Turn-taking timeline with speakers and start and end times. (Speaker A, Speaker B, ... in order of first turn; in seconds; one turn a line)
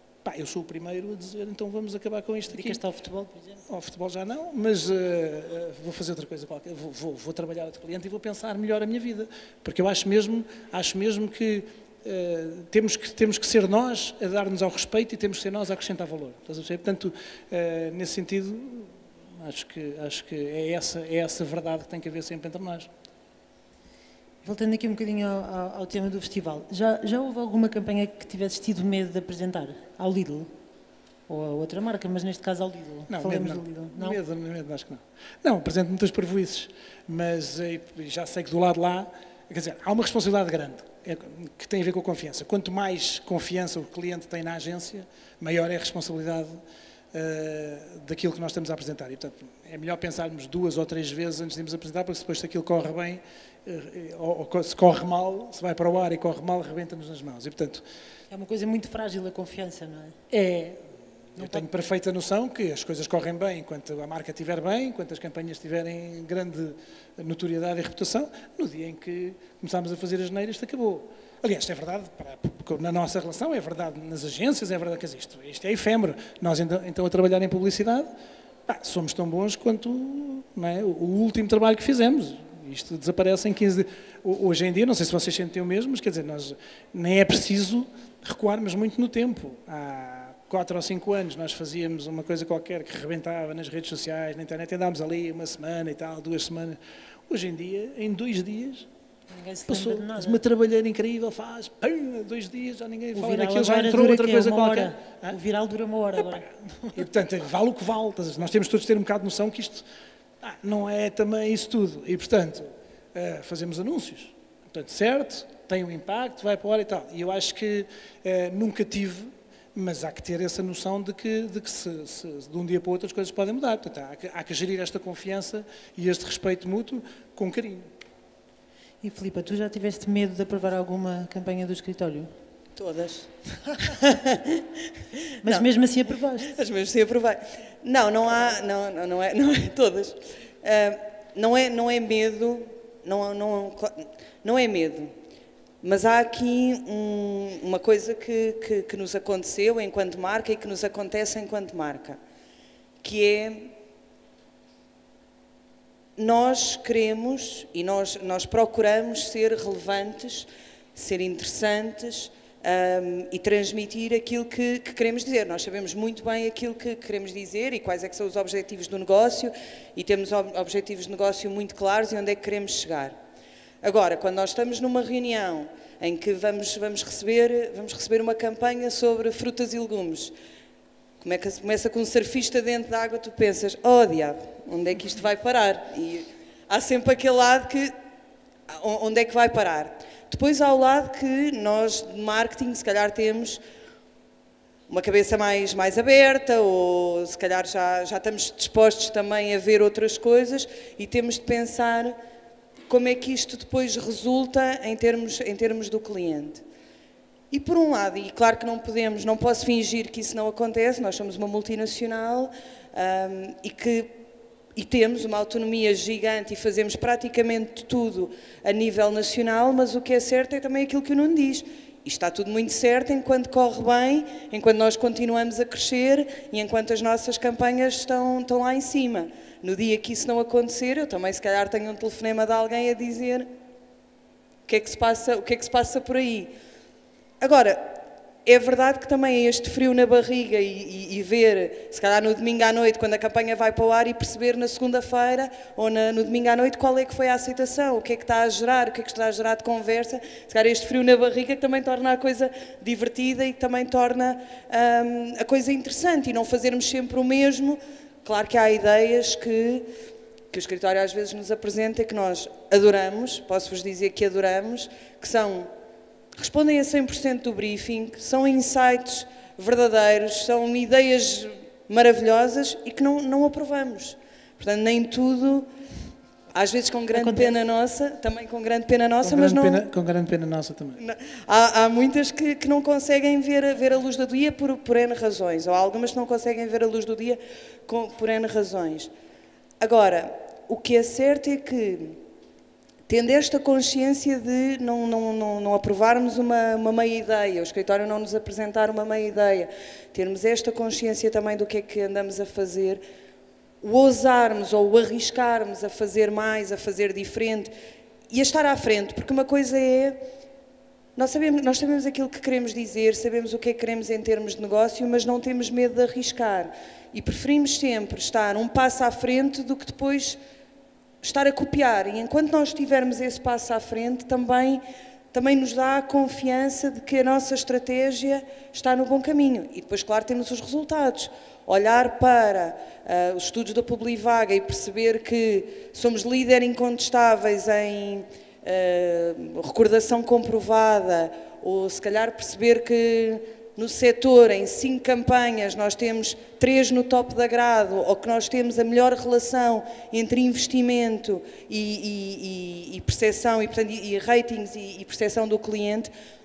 Speaker A: 0.2-2.8
Speaker B: 2.5-3.6
Speaker A: 3.7-22.9
Speaker B: 24.4-30.5
Speaker B: 31.3-34.2
Speaker A: 33.1-46.6
Speaker A: 47.1-57.8
Speaker B: 58.3-60.2
Speaker A: 60.3-60.8
Speaker A: 61.4-78.1
Speaker B: 61.4-61.7
Speaker A: 78.7-98.9
Speaker B: 99.3-100.4
Speaker A: 99.7-105.4
Speaker B: 103.1-106.4
Speaker A: 106.2-109.9
Speaker A: 110.4-127.9
Speaker B: 129.0-132.3
Speaker C: 132.8-133.3
Speaker C: 133.8-134.6
Speaker B: 135.4-136.5
Speaker C: 136.5-145.1
Speaker C: 145.8-152.2
Speaker C: 153.0-153.7
Speaker C: 156.2-173.2
Speaker C: 173.8-180.3
Speaker C: 181.2-187.9
Speaker C: 188.7-193.6
Speaker C: 194.9-202.2
Speaker C: 202.9-206.6
Speaker C: 207.5-214.1
Speaker C: 214.8-233.5
Speaker C: 234.7-236.5
Speaker C: 237.4-259.9
Speaker C: 260.5-265.7
Speaker C: 266.4-275.7
Speaker C: 276.5-279.9
Speaker B: 277.1-277.6
Speaker A: 279.2-281.0
Speaker C: 281.0-289.1
Speaker C: 289.8-292.2
Speaker C: 293.1-303.0
Speaker C: 303.8-307.7
Speaker C: 308.3-310.2
Speaker C: 311.2-320.4
Speaker C: 321.2-356.1